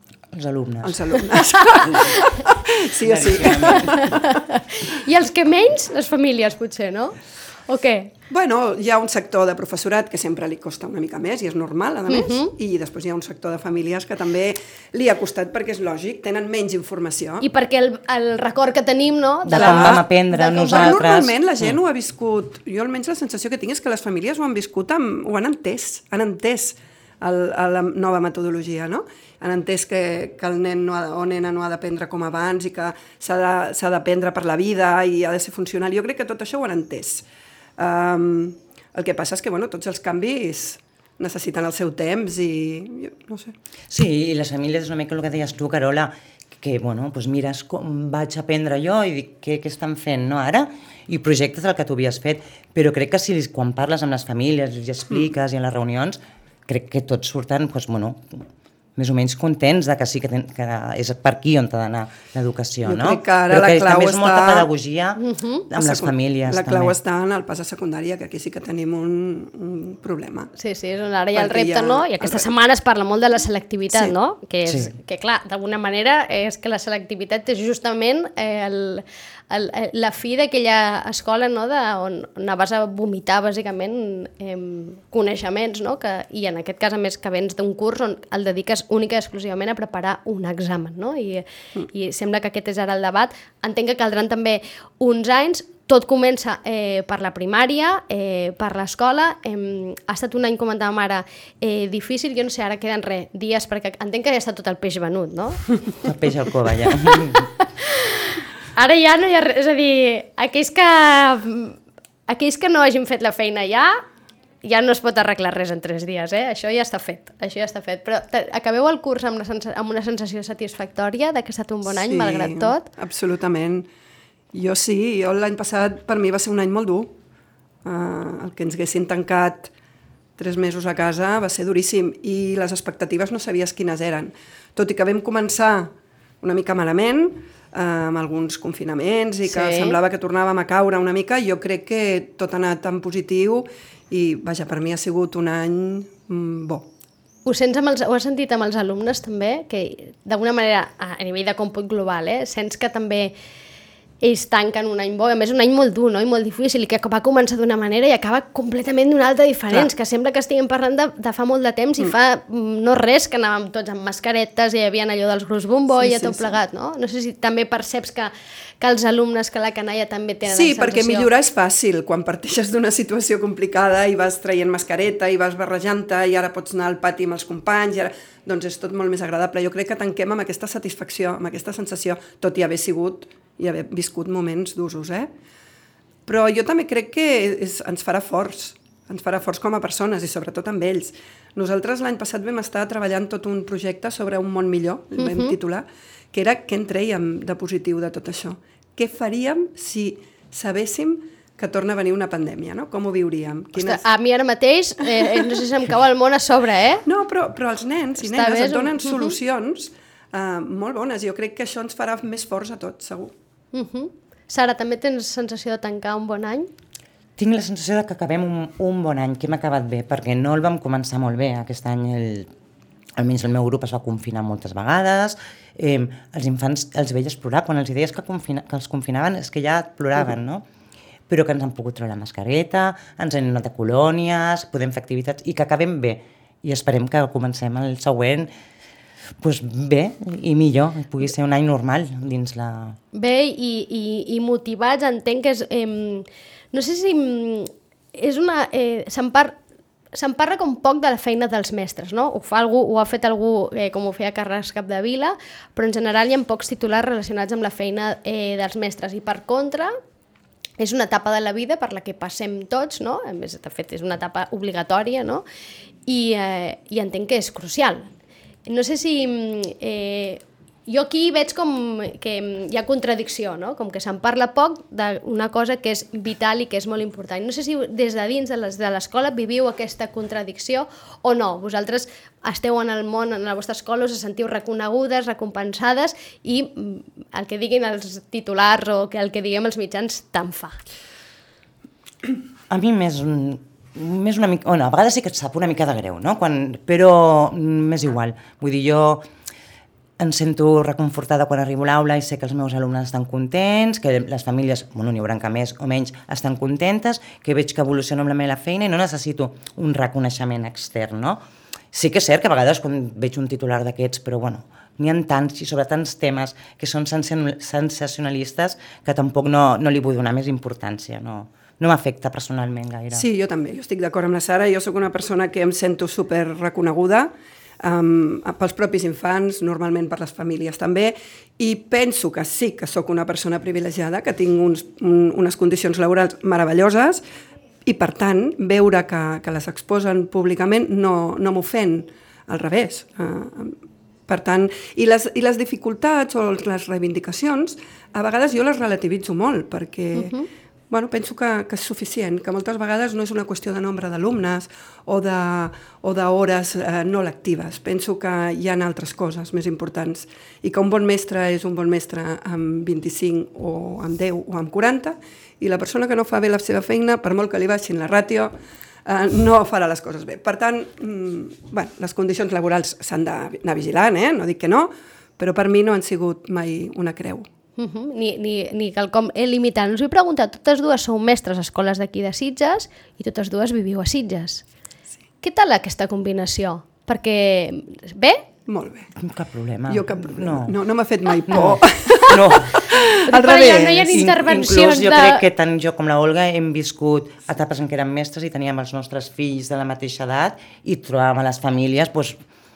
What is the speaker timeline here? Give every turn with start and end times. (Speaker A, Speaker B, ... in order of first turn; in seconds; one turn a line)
Speaker A: 0.3-1.3
Speaker B: 0.8-4.4
Speaker C: 1.8-2.4
Speaker A: 3.0-4.1
Speaker C: 3.7-7.2
Speaker C: 7.7-8.1
Speaker B: 8.3-17.5
Speaker C: 12.1-12.5
Speaker C: 17.4-21.0
Speaker A: 19.5-21.8
Speaker B: 19.5-37.2
Speaker B: 37.8-43.5
Speaker A: 43.9-67.0
Speaker B: 62.9-64.7
Speaker C: 65.2-65.7
Speaker B: 65.7-70.5
Speaker C: 70.6-105.7
Speaker B: 71.3-72.5
Speaker A: 106.0-107.5
Speaker C: 107.6-114.0
Speaker C: 114.6-122.9
Speaker B: 121.9-123.9
Speaker B: 124.5-127.1
Speaker B: 127.8-129.7
Speaker B: 130.4-146.9
Speaker C: 139.5-140.0
Speaker C: 147.4-153.3
Speaker C: 154.2-171.3
Speaker B: 166.0-166.6
Speaker B: 170.5-185.3
Speaker B: 186.3-204.0
Speaker C: 195.2-195.5
Speaker C: 203.8-207.0
Speaker B: 207.1-213.3
Speaker C: 208.2-209.3
Speaker C: 213.7-216.7
Speaker A: 217.4-222.5
Speaker A: 223.2-230.7
Speaker A: 231.3-238.5
Speaker A: 239.4-243.0
Speaker C: 243.1-249.6
Speaker C: 250.1-259.9
Speaker C: 260.8-265.4
Speaker C: 266.1-268.1
Speaker C: 268.7-290.8
Speaker A: 292.7-299.2
Speaker A: 300.2-311.4
Speaker A: 311.9-323.2
Speaker B: 323.1-337.2
Speaker B: 337.9-350.4
Speaker C: 350.2-350.5
Speaker B: 350.9-377.5
Speaker C: 377.8-384.6
Speaker C: 385.4-388.4
Speaker B: 388.7-389.1
Speaker A: 389.2-390.8
Speaker B: 389.9-394.0
Speaker A: 391.4-402.4
Speaker C: 393.3-395.4